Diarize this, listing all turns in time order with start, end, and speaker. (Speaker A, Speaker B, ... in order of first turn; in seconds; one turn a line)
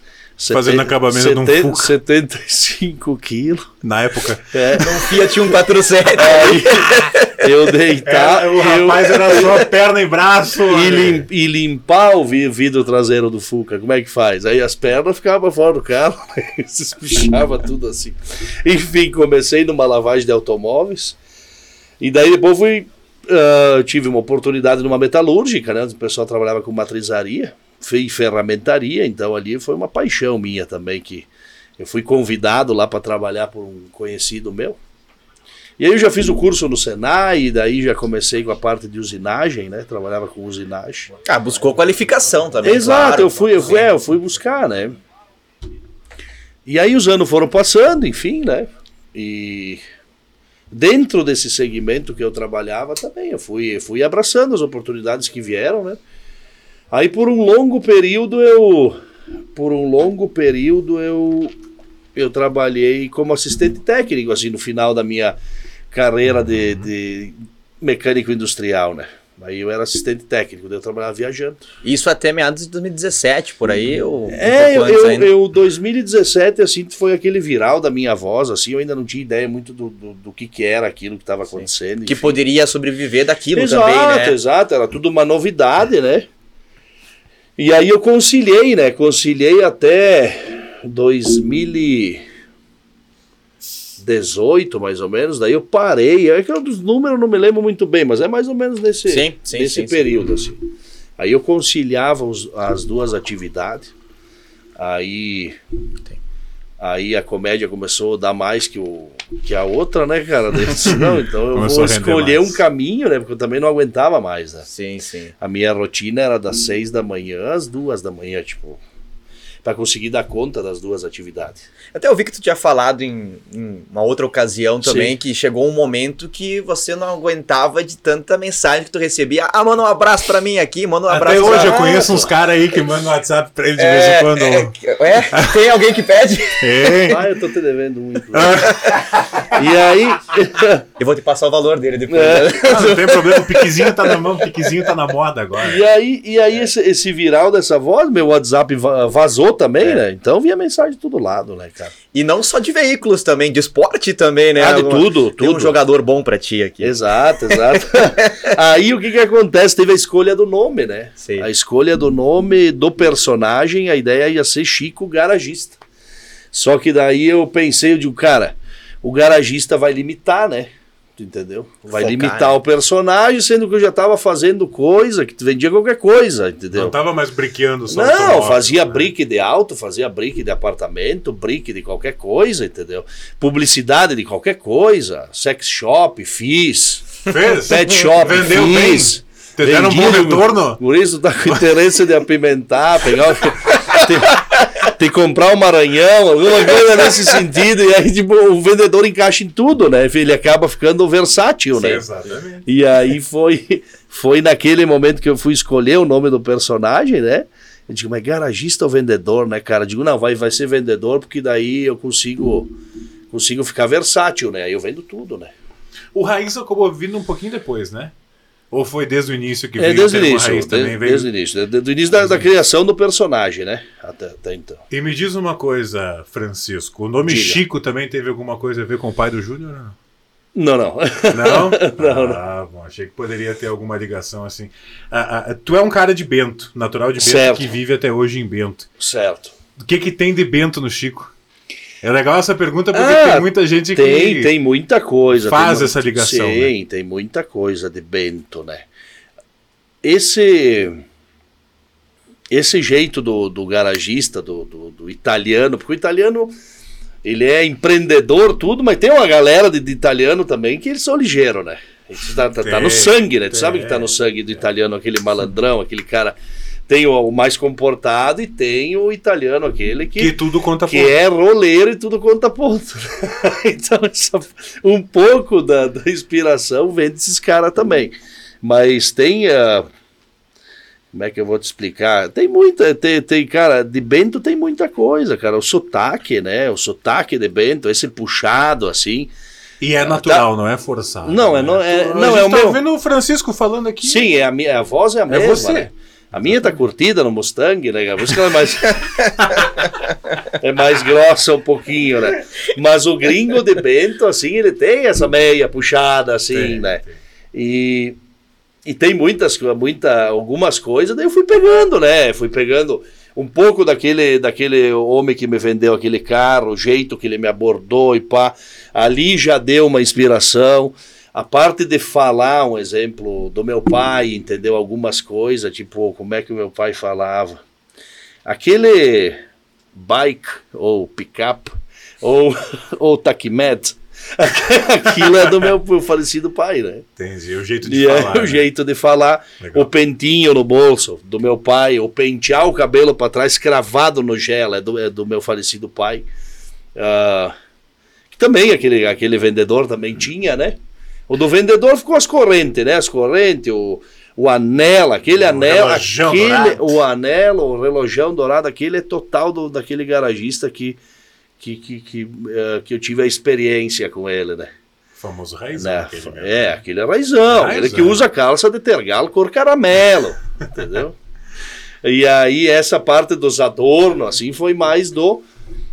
Speaker A: 0.4-3.7
Speaker B: 0.5-1.9
Speaker B: 3.8-4.6
Speaker A: 4.5-5.4
Speaker C: 4.8-7.5
Speaker A: 6.1-9.7
Speaker B: 6.9-7.1
Speaker B: 8.0-11.2
Speaker A: 10.6-21.2
Speaker A: 22.0-34.8
Speaker A: 35.8-41.1
Speaker C: 41.2-43.9
Speaker A: 42.6-45.0
Speaker A: 46.6-49.8
Speaker A: 50.7-56.0
Speaker A: 56.9-59.0
Speaker A: 59.5-61.5
Speaker A: 62.1-65.3
Speaker A: 65.9-71.7
Speaker C: 71.8-75.3
Speaker A: 74.3-82.3
Speaker C: 81.6-84.4
Speaker A: 83.5-86.3
Speaker A: 87.6-92.2
Speaker A: 94.0-100.6
Speaker C: 99.1-100.0
Speaker A: 101.2-103.9
Speaker A: 104.8-105.6
Speaker A: 106.8-114.7
Speaker B: 110.8-112.6
Speaker C: 114.7-115.3
Speaker A: 115.4-118.8
Speaker A: 119.6-121.7
Speaker C: 121.9-132.2
Speaker A: 124.8-125.1
Speaker B: 131.1-135.6
Speaker A: 131.4-132.3
Speaker C: 133.8-136.9
Speaker B: 136.6-137.3
Speaker A: 137.1-140.8
Speaker B: 138.3-139.5
Speaker C: 141.0-143.3
Speaker A: 142.1-143.0
Speaker B: 142.6-145.8
Speaker A: 145.6-151.9
Speaker C: 152.1-158.5
Speaker A: 154.6-155.8
Speaker A: 156.8-165.8
Speaker A: 166.5-176.9
Speaker C: 171.9-172.6
Speaker B: 176.7-179.1
Speaker A: 177.9-202.0
Speaker B: 187.3-190.8
Speaker B: 201.8-202.7
Speaker A: 202.7-212.7
Speaker A: 213.3-215.5
Speaker B: 216.1-218.1
Speaker B: 218.7-221.3
Speaker A: 219.8-224.8
Speaker B: 222.1-222.5
Speaker B: 224.9-229.9
Speaker A: 227.2-227.6
Speaker A: 230.6-232.4
Speaker B: 231.3-238.9
Speaker A: 237.2-237.7
Speaker A: 239.0-239.5
Speaker B: 239.8-241.3
Speaker B: 242.0-244.5
Speaker A: 242.9-248.9
Speaker B: 245.3-246.7
Speaker A: 250.0-251.0
Speaker A: 252.5-256.5
Speaker A: 257.2-266.4
Speaker B: 262.6-264.1
Speaker A: 266.9-279.9
Speaker B: 270.2-271.2
Speaker A: 281.1-289.3
Speaker B: 289.8-294.3
Speaker A: 290.1-290.4
Speaker A: 291.2-292.8
Speaker A: 294.0-299.9
Speaker B: 295.3-296.8
Speaker A: 300.4-308.2
Speaker B: 306.5-307.1
Speaker A: 308.8-327.6
Speaker A: 328.4-329.4
Speaker A: 329.9-337.1
Speaker B: 337.2-338.7
Speaker A: 337.8-346.3
Speaker B: 339.6-339.9
Speaker A: 346.9-347.5
Speaker A: 348.3-350.8
Speaker A: 351.3-361.0
Speaker B: 355.3-357.0
Speaker A: 361.6-364.7
Speaker B: 365.2-366.8
Speaker A: 365.8-371.2
Speaker B: 367.5-368.2
Speaker A: 372.0-375.4